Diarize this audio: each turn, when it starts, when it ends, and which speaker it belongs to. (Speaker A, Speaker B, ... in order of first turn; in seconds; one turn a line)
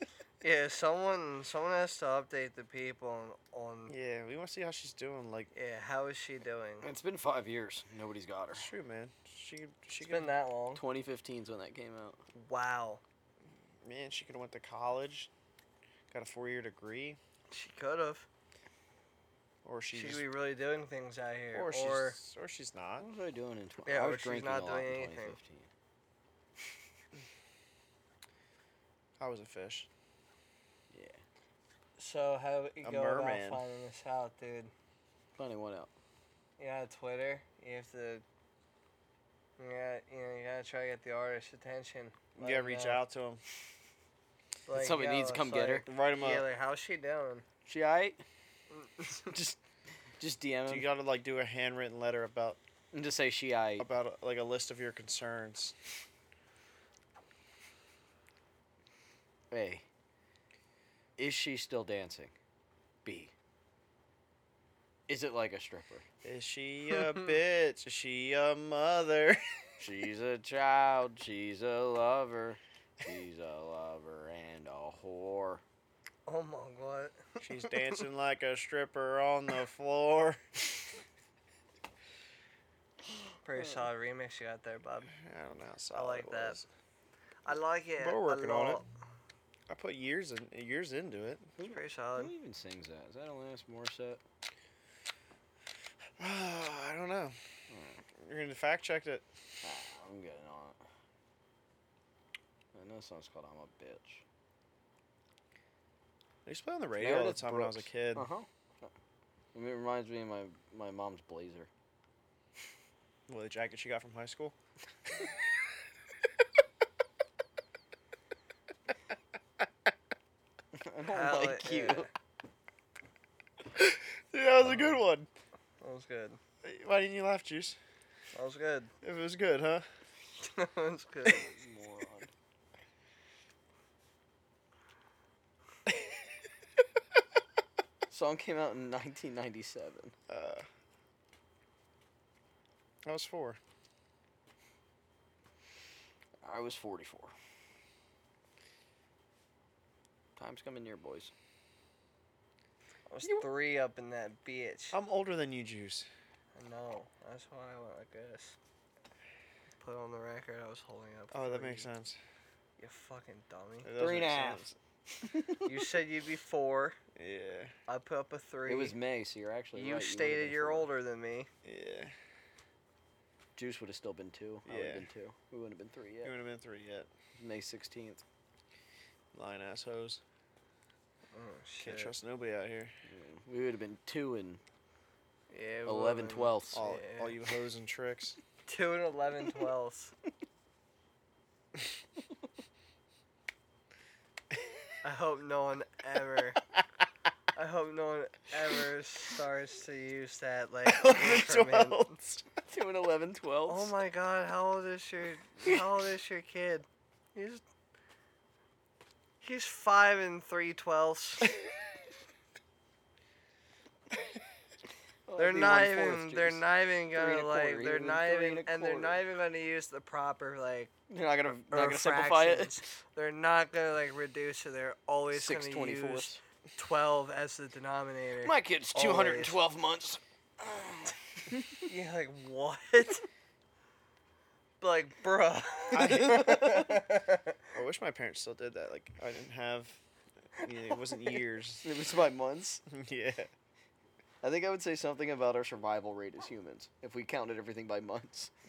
Speaker A: 0.4-3.9
Speaker B: 3.9-5.5
Speaker A: 5.5-6.9
Speaker C: 6.8-8.7
Speaker B: 8.5-10.3
Speaker A: 10.0-10.8
Speaker C: 10.7-12.2
Speaker A: 12.3-13.0
Speaker B: 13.8-15.3
Speaker B: 16.1-17.2
Speaker A: 17.5-18.3
Speaker B: 19.6-20.2
Speaker A: 19.9-22.2
Speaker B: 21.5-23.1
Speaker C: 23.0-25.7
Speaker A: 23.9-25.4
Speaker B: 29.2-29.9
Speaker C: 30.9-31.2
Speaker A: 32.0-34.7
Speaker B: 32.8-33.6
Speaker C: 35.4-35.9
Speaker A: 36.6-38.2
Speaker A: 39.6-43.0
Speaker B: 42.4-43.4
Speaker A: 44.7-47.4
Speaker C: 44.7-45.9
Speaker B: 45.9-46.5
Speaker C: 47.6-48.2
Speaker A: 48.7-49.3
Speaker C: 49.3-49.6
Speaker C: 50.2-50.9
Speaker B: 50.7-52.6
Speaker C: 52.9-53.9
Speaker B: 53.8-55.7
Speaker C: 59.5-59.8
Speaker C: 61.2-62.3
Speaker C: 63.0-63.3
Speaker C: 65.1-66.0
Speaker B: 66.2-69.6
Speaker C: 69.8-75.6
Speaker A: 76.3-78.0
Speaker B: 77.4-80.6
Speaker A: 83.4-85.1
Speaker B: 85.1-86.7
Speaker A: 85.9-86.6
Speaker A: 87.4-88.9
Speaker B: 88.0-88.8
Speaker B: 89.7-91.5
Speaker C: 91.6-94.2
Speaker A: 91.6-92.3
Speaker B: 96.2-97.3
Speaker C: 97.7-98.0
Speaker B: 98.2-99.2
Speaker C: 99.6-100.8
Speaker C: 102.7-104.2
Speaker B: 106.5-108.3
Speaker C: 107.0-108.9
Speaker C: 109.5-111.7
Speaker B: 113.3-114.5
Speaker C: 120.7-122.1
Speaker A: 121.1-122.1
Speaker B: 123.7-125.3
Speaker A: 125.8-126.4
Speaker B: 126.6-127.8
Speaker A: 128.3-128.9
Speaker B: 129.0-129.8
Speaker A: 130.4-131.5
Speaker C: 131.2-132.3
Speaker C: 138.1-140.1
Speaker B: 140.3-140.7
Speaker B: 143.0-143.6
Speaker C: 146.4-147.3
Speaker C: 150.3-151.3
Speaker A: 153.1-155.0
Speaker B: 154.9-156.1
Speaker A: 156.5-158.6
Speaker A: 159.8-161.9
Speaker B: 161.3-162.2
Speaker A: 162.8-163.9
Speaker B: 163.8-164.7
Speaker C: 164.0-165.8
Speaker A: 165.6-167.0
Speaker B: 167.2-167.7
Speaker A: 167.9-168.9
Speaker C: 168.7-170.9
Speaker A: 169.7-171.5
Speaker B: 171.6-172.1
Speaker C: 173.6-176.3
Speaker B: 174.7-175.1
Speaker B: 176.2-177.1
Speaker C: 177.4-178.2
Speaker B: 179.3-180.2
Speaker A: 181.3-182.1
Speaker B: 181.8-182.9
Speaker C: 183.1-184.6
Speaker A: 185.5-187.3
Speaker C: 185.8-186.8
Speaker B: 186.7-188.4
Speaker A: 188.7-190.1
Speaker A: 195.0-196.6
Speaker A: 197.5-202.1
Speaker B: 200.8-202.4
Speaker C: 202.7-203.9
Speaker A: 203.7-207.6
Speaker A: 209.4-211.5
Speaker C: 215.3-219.2
Speaker A: 215.4-220.9
Speaker C: 221.1-222.8
Speaker A: 221.7-229.6
Speaker C: 225.3-226.4
Speaker C: 228.4-231.8
Speaker A: 231.8-233.2
Speaker A: 234.8-237.6
Speaker B: 235.9-236.8
Speaker C: 235.9-237.0
Speaker B: 237.7-240.0
Speaker B: 240.6-241.9
Speaker C: 241.8-242.8
Speaker B: 242.9-243.5
Speaker C: 244.4-248.5